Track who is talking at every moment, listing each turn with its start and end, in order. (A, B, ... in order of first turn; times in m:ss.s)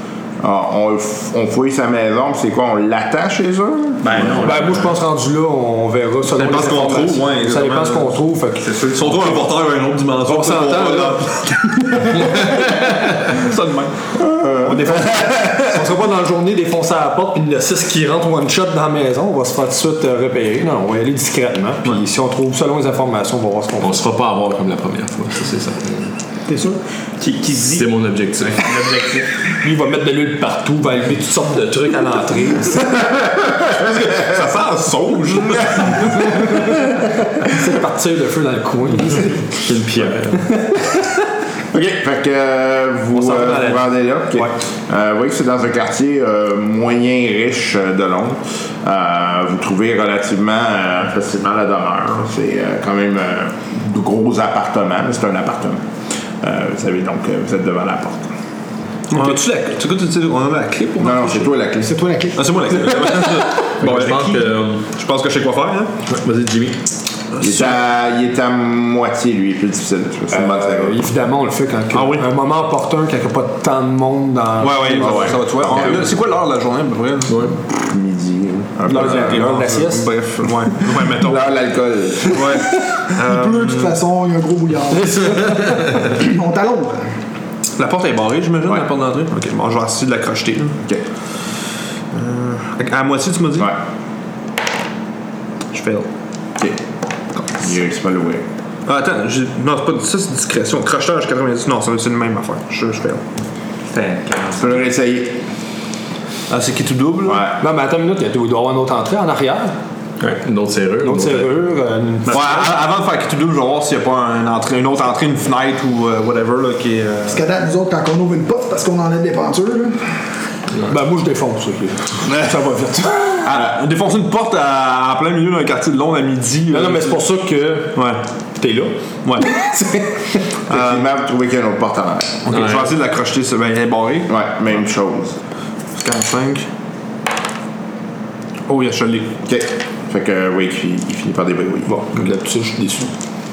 0:00.4-0:04.4 A
0:04.0-0:04.9 B
0:04.4-0:09.3 C
0:06.3-0:08.2 D
0:08.6-0:09.0 B
0:08.8-0:15.5 D
0:10.3-0:12.8 C
0:14.2-0:15.7 A
0:15.1-0:24.0 C
0:23.8-0:26.1 E
0:26.5-0:26.8 F
0:27.2-0:29.3 B
0:27.7-0:28.7 E
0:29.6-0:32.9 C
0:33.7-0:36.6 D
0:36.3-0:36.9 C
0:37.4-0:41.0 C
0:39.6-0:40.4 E
0:41.7-0:55.9 A
0:43.1-0:44.5 C
0:56.4-0:58.3 A
0:59.1-1:01.5 D
1:01.0-1:02.0 A
1:01.8-1:02.5 F
1:02.4-1:05.9 D
1:03.8-1:04.8 E
1:06.1-1:06.8 E
1:07.3-1:07.8 D
1:07.4-1:11.0 A
1:10.3-1:15.4 C
1:11.9-1:12.3 D
1:14.6-1:17.6 D
1:15.0-1:16.1 A
1:17.3-1:17.6 E
1:17.8-1:19.4 A
1:18.9-1:20.1 C
1:18.9-1:21.5 D
1:21.0-1:22.5 A
1:22.3-1:24.0 D
1:23.2-1:27.1 F
1:24.9-1:26.0 C
1:27.8-1:30.8 D
1:32.1-1:33.8 D
1:35.7-1:36.1 D
1:37.5-1:38.4 A
1:38.9-1:43.2 D
1:43.9-1:44.8 B
1:44.6-1:45.4 A
1:46.5-1:47.5 D
1:47.2-1:47.5 A
1:47.6-1:49.7 C
1:50.2-1:51.5 E
1:51.0-1:52.7 C
1:52.3-1:57.4 D
1:57.3-2:00.1 F
2:00.9-2:03.5 C
2:03.4-2:07.2 D
2:06.7-2:08.0 C
2:08.0-2:08.2 D
2:08.6-2:08.9 C
2:09.2-2:09.5 D
2:09.5-2:10.2 C
2:10.7-2:11.1 D
2:10.7-2:12.4 A
2:12.4-2:14.3 D
2:12.5-2:12.9 E
2:14.3-2:15.4 A
2:16.0-2:16.7 D
2:18.7-2:19.3 D
2:19.5-2:22.0 A
2:21.9-2:23.1 C